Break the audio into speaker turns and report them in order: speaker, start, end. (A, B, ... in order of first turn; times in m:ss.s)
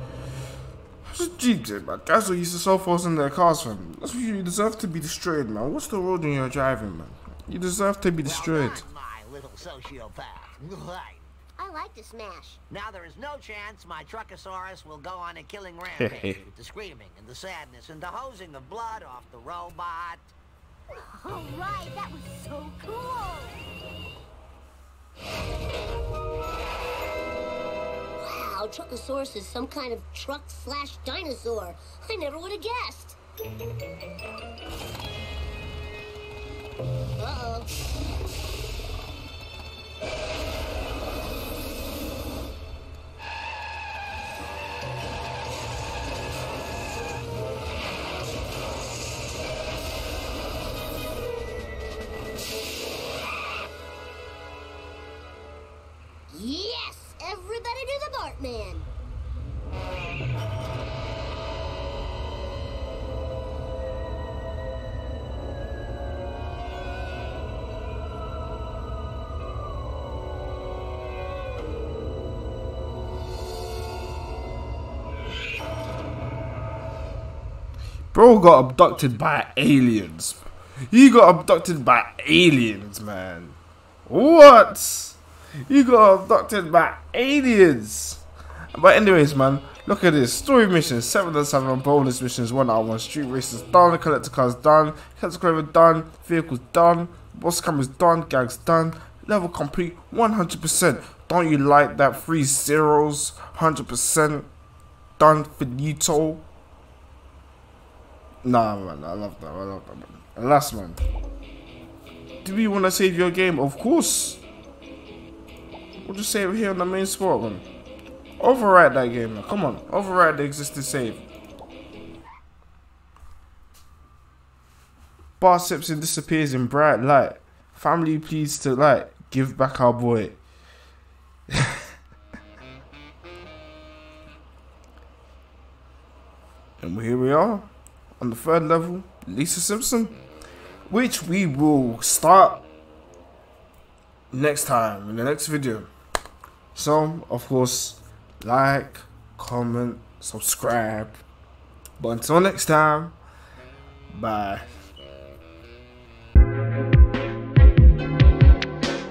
0:01.0-0:08.8 A
0:08.2-0:11.3 B
0:11.6-0:12.6 C
0:12.7-0:20.3 B
0:16.0-0:16.4 A
0:20.9-0:23.6 C
0:28.2-0:33.2 C
0:37.2-0:37.9 C
0:56.3-0:58.9 C
1:18.1-1:44.5 A
1:45.2-1:46.4 A
1:48.4-1:51.0 A
1:52.4-1:54.4 A
1:56.0-1:57.7 A
1:58.4-2:01.2 A
2:05.4-2:10.4 A
2:11.5-2:11.9 A
2:16.8-2:20.2 A
2:20.9-2:22.6 A
2:24.3-2:25.9 A
2:26.7-2:31.2 A
2:32.0-2:33.2 A
2:34.1-2:34.7 A